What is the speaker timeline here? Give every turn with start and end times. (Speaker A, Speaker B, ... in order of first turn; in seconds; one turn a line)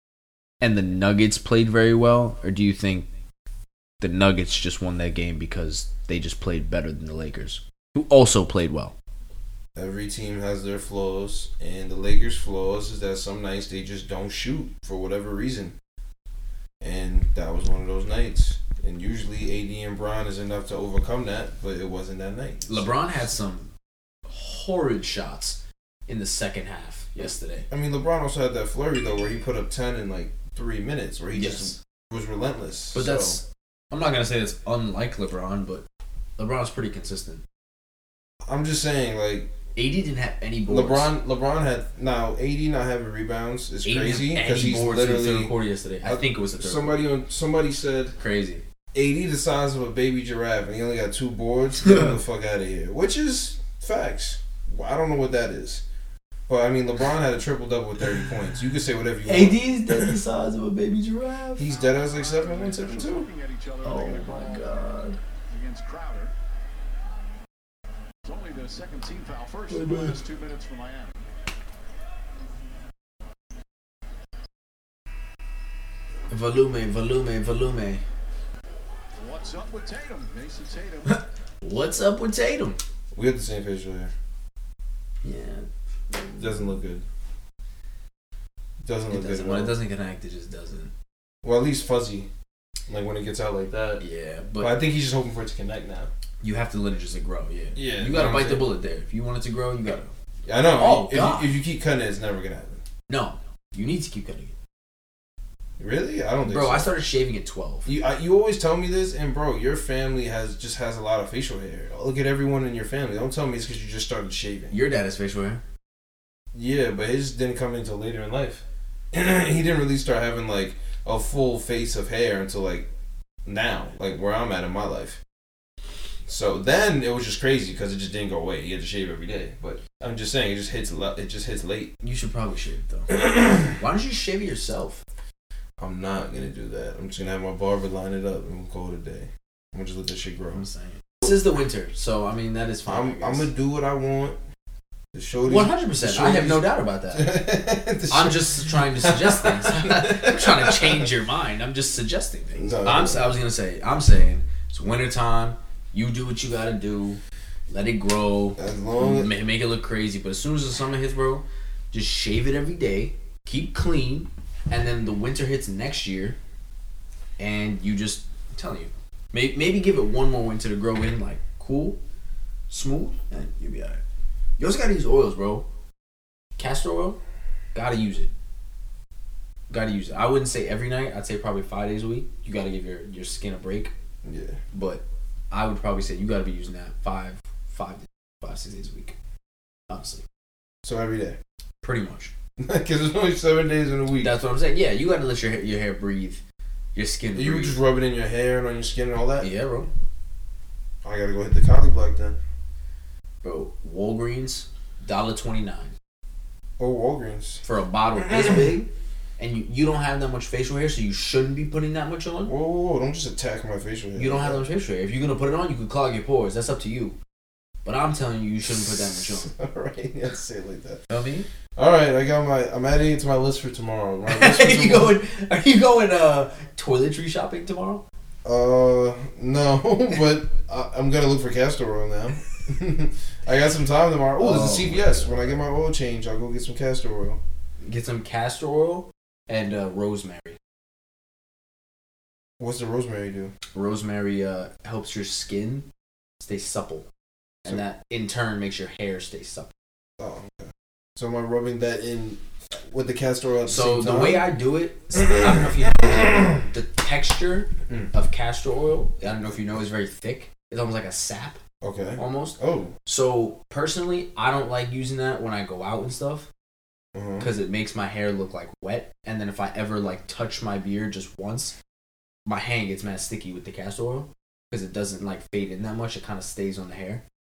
Speaker A: 0.6-3.1
Speaker A: 4.0-8.9
Speaker B: 9.7-15.7
Speaker B: 16.8-22.9
Speaker A: 22.7-23.7
Speaker A: 24.3-27.7
Speaker B: 27.7-33.4
Speaker A: 31.3-31.8
Speaker A: 32.9-35.8
Speaker A: 36.4-37.4
Speaker B: 38.4-39.5
Speaker A: 39.8-41.1
Speaker B: 40.7-48.1
Speaker A: 43.8-47.0
Speaker A: 48.2-48.6
Speaker B: 48.9-55.8
Speaker A: 51.8-52.1
Speaker B: 56.5-60.2
Speaker A: 59.2-61.7
Speaker B: 61.6-63.3
Speaker C: 61.7-64.8
Speaker A: 63.8-65.2
Speaker C: 65.5-66.3
Speaker C: 68.2-71.3
Speaker A: 69.7-70.2
Speaker A: 76.3-78.0
Speaker C: 79.2-81.2
Speaker A: 81.6-82.8
Speaker B: 83.1-84.1
Speaker A: 85.2-86.7
Speaker B: 86.4-87.0
Speaker B: 88.8-89.8
Speaker A: 89.1-90.9
Speaker B: 91.4-92.3
Speaker B: 92.9-94.0
Speaker A: 94.0-94.7
Speaker B: 94.6-96.1
Speaker A: 96.4-100.1
Speaker B: 97.7-98.7
Speaker B: 100.4-102.8
Speaker A: 100.7-101.5
Speaker A: 103.1-104.5
Speaker B: 105.8-106.9
Speaker A: 106.5-107.9
Speaker B: 107.8-114.8
Speaker A: 114.7-115.6
Speaker B: 116.5-122.9
Speaker B: 123.4-125.2
Speaker B: 126.3-131.9
Speaker A: 132.0-135.0
Speaker B: 133.2-133.5
Speaker B: 135.8-140.6
Speaker A: 140.5-143.5
Speaker B: 142.8-144.4
Speaker B: 145.1-151.1
Speaker A: 145.4-147.4
Speaker A: 148.1-166.4
Speaker B: 152.6-153.3
Speaker B: 158.6-159.3
Speaker A: 167.4-172.0
Speaker A: 172.7-174.0
Speaker A: 174.6-175.7
Speaker A: 176.6-177.2
Speaker A: 177.7-178.3
Speaker A: 179.7-183.9
Speaker B: 184.2-184.6
Speaker A: 184.7-189.1
Speaker A: 189.9-190.2
Speaker B: 190.8-191.4
Speaker A: 191.8-192.3
Speaker B: 192.6-194.3
Speaker A: 194.2-196.4
Speaker A: 196.9-197.8
Speaker B: 197.3-199.5
Speaker A: 199.4-199.9
Speaker B: 201.0-202.4
Speaker A: 203.4-205.9
Speaker B: 206.8-207.6
Speaker A: 207.6-212.5
Speaker B: 208.2-208.7
Speaker B: 212.4-214.7
Speaker A: 214.2-217.2
Speaker A: 217.8-219.5
Speaker B: 219.2-221.0
Speaker A: 221.1-221.5
Speaker B: 221.8-225.2
Speaker A: 224.3-228.0
Speaker B: 228.4-237.4
Speaker A: 234.4-235.5
Speaker A: 237.8-240.6
Speaker B: 242.6-243.5
Speaker A: 243.7-245.9
Speaker A: 246.4-247.1
Speaker A: 247.6-249.7
Speaker B: 250.2-254.4
Speaker A: 253.7-261.6
Speaker B: 255.2-256.6
Speaker B: 261.8-262.9
Speaker A: 262.2-266.5
Speaker B: 267.1-267.5
Speaker A: 267.4-271.7
Speaker A: 272.4-277.2